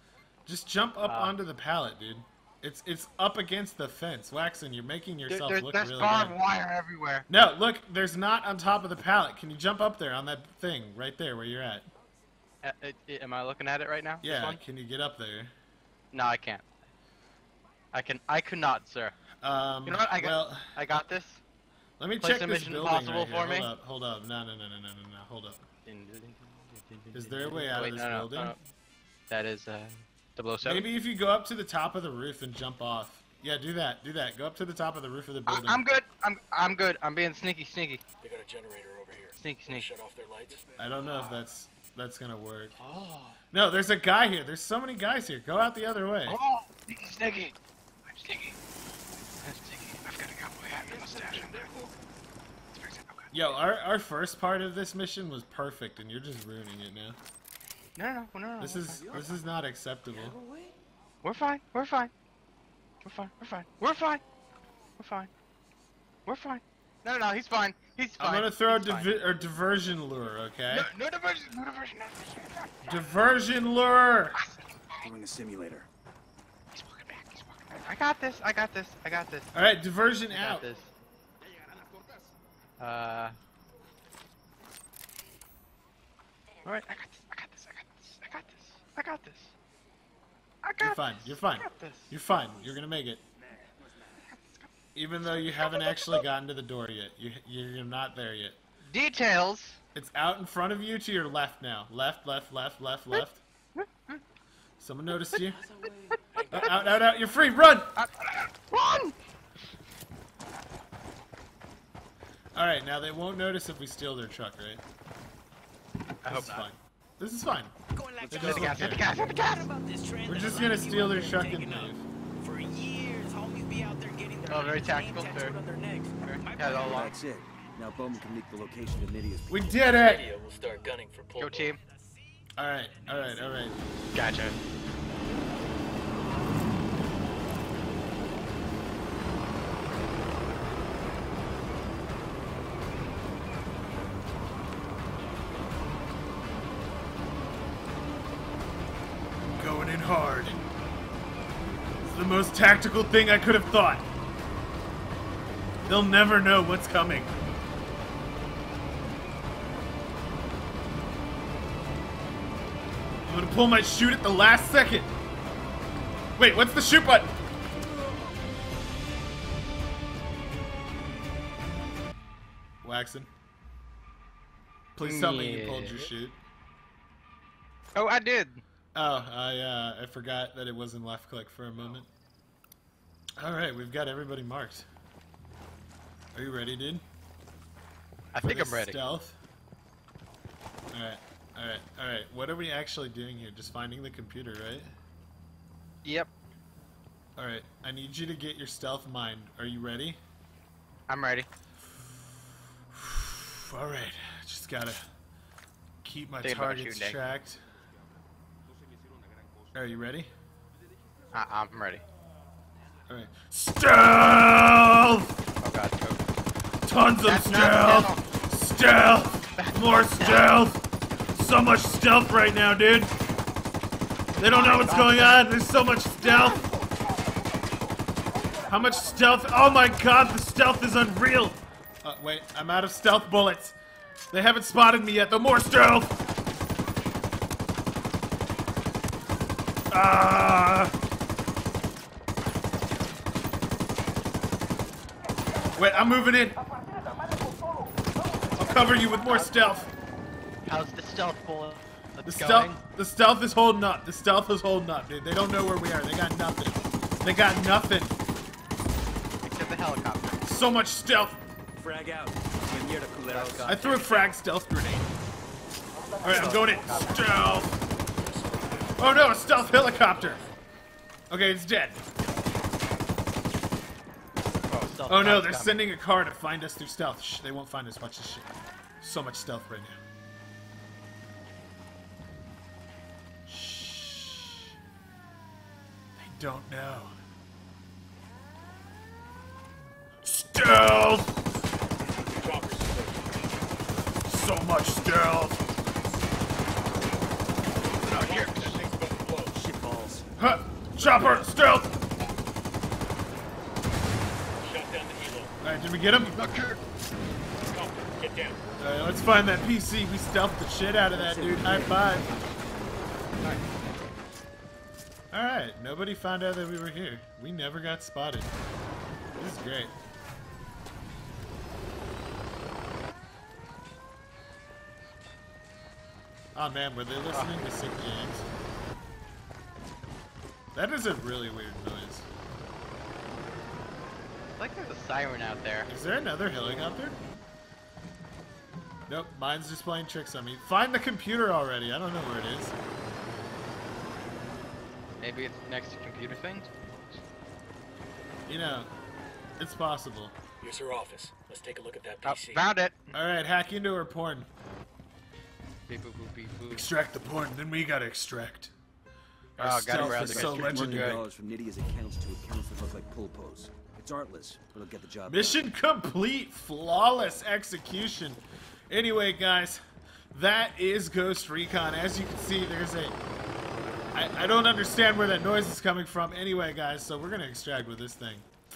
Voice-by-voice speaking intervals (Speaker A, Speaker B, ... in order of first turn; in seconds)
Speaker A: 0.5-6.4, 7.3-11.9, 14.2-15.5, 19.4-20.7, 22.0-25.6, 27.1-28.6, 30.6-35.8, 40.8-42.7, 43.5-46.4, 53.3-57.2, 58.6-60.4, 68.2-70.9, 72.8-74.4, 79.5-80.6, 90.8-93.2, 94.9-98.6, 99.9-103.4, 104.8-105.6, 106.5-108.0, 112.5-114.8, 116.2-117.7, 118.2-119.0, 120.2-122.0, 129.5-130.3, 132.6-133.8, 149.5-150.6, 152.1-154.1, 155.8-157.3, 163.2-165.1, 166.4-167.3, 172.8-173.3, 174.9-176.4, 178.9-182.1, 183.4-184.9, 186.3-187.0, 188.4-189.4, 190.9-194.9, 197.4-200.2, 202.9-205.0, 206.0-207.6, 209.7-210.3, 213.1-215.3, 216.8-220.8, 221.3-223.1, 224.4-226.6, 228.7-233.8, 234.3-236.2, 239.9-240.9, 245.8-246.6, 248.6-249.9, 252.2-258.2, 260.4-261.4, 263.6-265.1, 266.2-267.7, 269.0-270.4, 271.3-272.0, 275.1-278.5, 279.0-280.0, 283.5-284.7, 286.2-287.1, 290.2-291.3, 294.2-295.6, 300.4-301.9, 305.6-306.6, 308.8-312.3, 315.3-318.5, 319.4-319.9, 326.5-328.5, 330.7-332.3, 335.9-337.2, 339.1-342.8, 348.5-348.9, 349.6-350.4, 353.1-354.5, 356.7-358.7, 359.6-361.2, 365.3-369.8, 370.3-373.2, 374.1-378.4
Speaker B: 1.0-1.4, 5.3-7.2, 12.6-14.6, 16.1-16.6, 17.9-19.1, 19.8-21.4, 22.2-23.7, 25.9-28.6, 29.3-30.9, 35.5-38.0, 39.4-39.9, 42.8-43.4, 46.3-47.5, 48.1-48.6, 49.4-51.9, 52.7-53.3, 58.0-59.1, 61.2-62.1, 63.0-64.2, 65.0-65.3, 66.2-69.2, 70.7-73.0, 74.4-75.0, 76.7-79.7, 80.3-80.9, 82.8-83.3, 86.6-89.5, 90.6-92.1, 94.3-94.7, 95.6-96.2, 98.9-99.8, 103.8-104.2, 108.0-109.2, 116.2-116.7, 118.4-119.7, 124.5-125.5, 126.2-127.1, 131.4-131.8, 134.1-134.6, 175.0-176.1, 177.9-178.6, 188.3-189.0, 196.0-196.3, 201.1-201.5, 206.4-207.2, 211.3-212.0, 215.6-216.2, 217.2-218.2, 219.6-220.5, 224.4-225.4, 250.6-252.8, 259.4-260.4, 263.2-264.3, 266.2-267.5, 274.7-275.8, 297.9-298.9, 306.3-306.8, 313.4-313.9, 334.6-335.9, 345.2-346.8, 352.2-353.1, 355.9-356.9, 359.6-361.2
Speaker C: 38.2-41.3, 106.3-107.2, 129.8-131.7, 268.1-270.5, 292.2-293.5, 298.0-299.6, 304.6-305.5, 307.6-308.6, 350.6-352.6
Speaker D: 60.1-60.7, 75.0-75.9, 93.5-94.1, 126.6-129.6, 261.8-263.9, 299.5-300.2, 311.1-312.1, 359.9-365.6
Speaker E: 118.0-126.8